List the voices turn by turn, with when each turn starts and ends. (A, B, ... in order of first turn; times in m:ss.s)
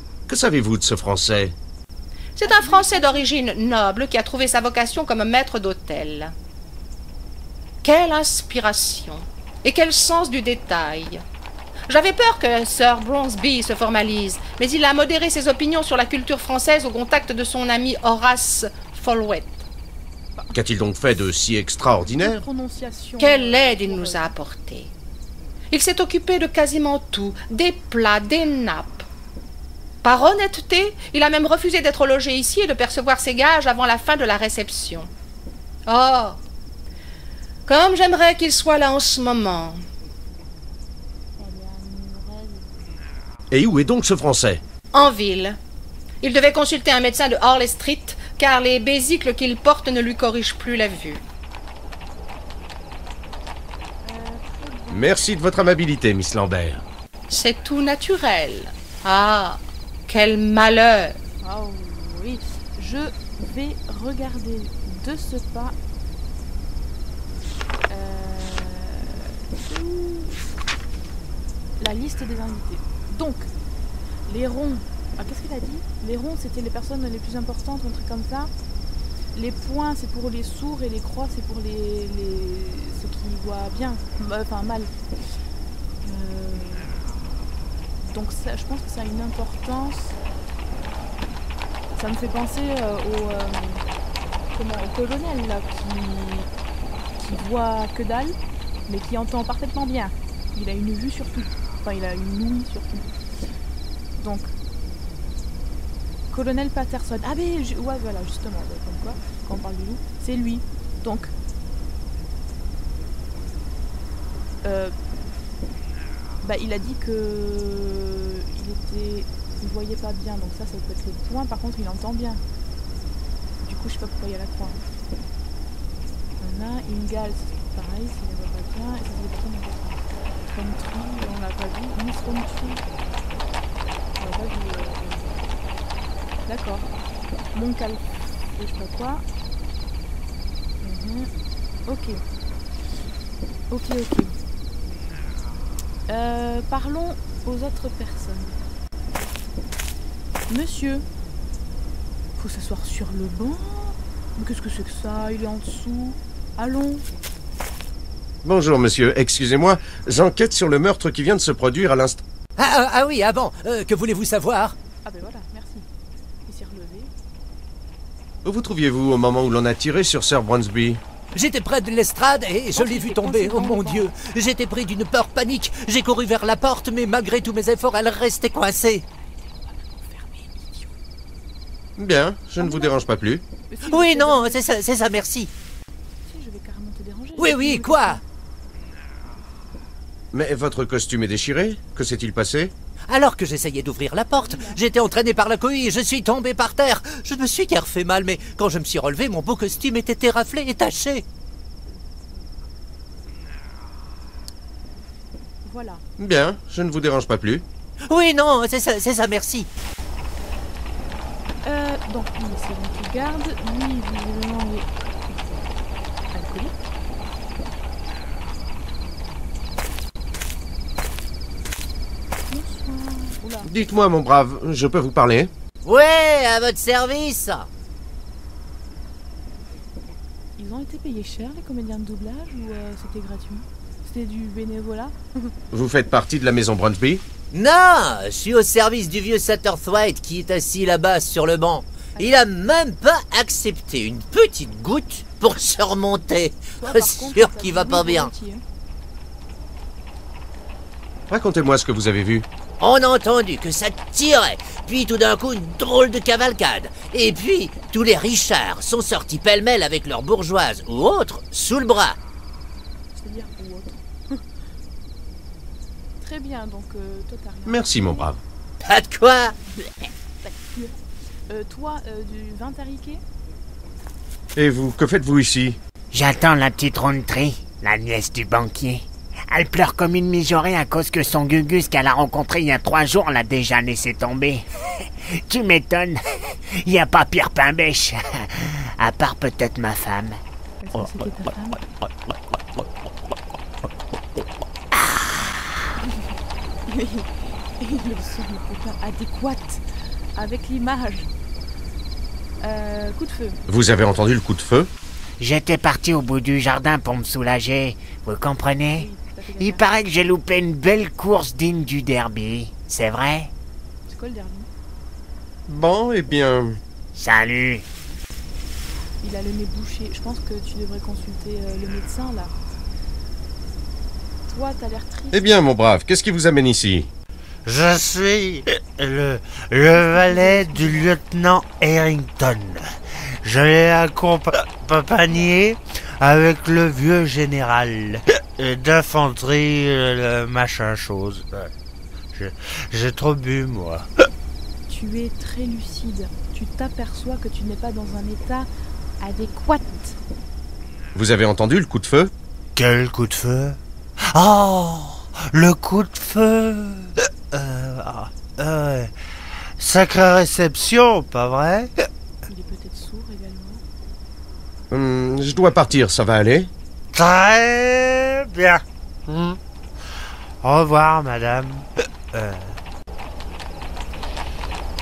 0:00.3-0:01.5 A
0:02.4-0:06.3 B
0:02.4-0:03.3 C
0:07.8-0:11.2 B
0:11.9-0:19.7 B
0:20.5-0:22.4 A
0:22.0-0:24.3 C
0:23.2-0:24.9 B
0:25.7-0:29.0 B
0:30.0-0:35.1 B
0:35.9-0:36.4 B
0:37.6-0:39.8 B
0:41.4-0:42.9 C
0:43.5-0:44.6 A
0:44.9-0:45.6 B
0:46.2-0:51.2 B
0:54.0-0:55.2 C
0:54.9-0:56.8 A
0:57.3-1:01.2 B
1:01.4-1:05.7 C
1:07.9-1:10.4 C
1:11.8-1:13.5 C
1:14.3-1:18.5 C
1:19.3-1:24.9 C
1:26.0-1:27.1 C
1:28.0-1:30.2 C
1:32.0-1:33.8 C
1:34.5-1:36.5 C
1:37.2-1:38.4 C
1:38.9-1:43.1 C
1:44.2-1:44.5 C
1:46.3-1:51.3 C
1:54.6-1:54.9 C
1:56.4-2:02.4 C
2:03.6-2:04.8 C
2:06.4-2:12.8 C
2:14.2-2:15.4 C
2:16.5-2:16.9 C
2:17.5-2:19.2 C
2:20.8-2:21.3 C
2:21.9-2:22.2 C
2:23.7-2:24.3 C
2:26.1-2:28.6 C
2:30.5-2:31.0 C
2:32.4-2:37.0 C
2:38.4-2:42.2 A
2:42.6-2:44.7 D
2:45.0-2:45.8 C
2:46.5-2:47.1 C
2:48.4-2:51.0 A
2:51.3-2:59.0 D
2:52.7-2:54.1 C
2:59.2-3:00.9 C
3:02.0-3:03.4 A
3:02.6-3:03.0 C
3:03.7-3:04.6 C
3:03.9-3:05.5 D
3:06.3-3:08.2 C
3:07.4-3:08.2 D
3:10.3-3:12.7 A
3:13.1-3:21.2 D
3:14.3-3:14.8 C
3:25.6-3:26.0 C
3:26.2-3:27.6 A
3:28.1-3:29.7 D
3:31.6-3:35.6 C
3:36.3-3:36.8 C
3:42.5-3:43.7 C
3:43.6-3:45.5 A
3:45.8-3:47.7 D
3:50.6-3:55.5 C
3:55.7-3:57.2 A
3:57.5-4:08.3 D
4:02.2-4:02.4 C
4:06.8-4:08.6 C
4:11.3-4:12.4 A
4:12.8-4:22.2 D
4:23.1-4:24.4 C
4:26.2-4:28.2 C
4:27.7-4:28.4 A
4:28.8-4:29.5 D
4:29.7-4:33.2 C
4:34.6-4:35.8 A
4:36.1-4:44.6 E
4:45.5-4:50.4 E
4:50.8-4:51.8 C
4:54.9-4:55.6 E
4:56.9-4:59.8 C
5:00.4-5:01.3 C
5:02.6-5:03.6 C
5:03.7-5:04.9 A
5:05.4-5:09.1 E
5:09.0-5:09.8 C
5:09.6-5:13.5 E
5:14.1-5:14.7 C
5:15.7-5:16.8 A
5:17.1-5:17.8 E
5:19.2-5:22.5 C
5:24.5-5:25.5 C
5:25.3-5:27.1 A
5:27.6-5:32.8 F
5:29.9-5:31.1 C
5:33.4-5:41.7 F
5:35.2-5:35.5 C
5:42.3-5:44.1 F
5:44.9-5:48.7 C
5:49.2-5:50.2 C
5:51.1-5:52.3 A
5:52.7-5:53.8 F
5:54.3-5:59.1 F
5:59.8-6:01.9 F
6:02.5-6:03.8 C
6:04.9-6:06.7 A
6:07.1-6:09.6 F
6:10.6-6:12.8 F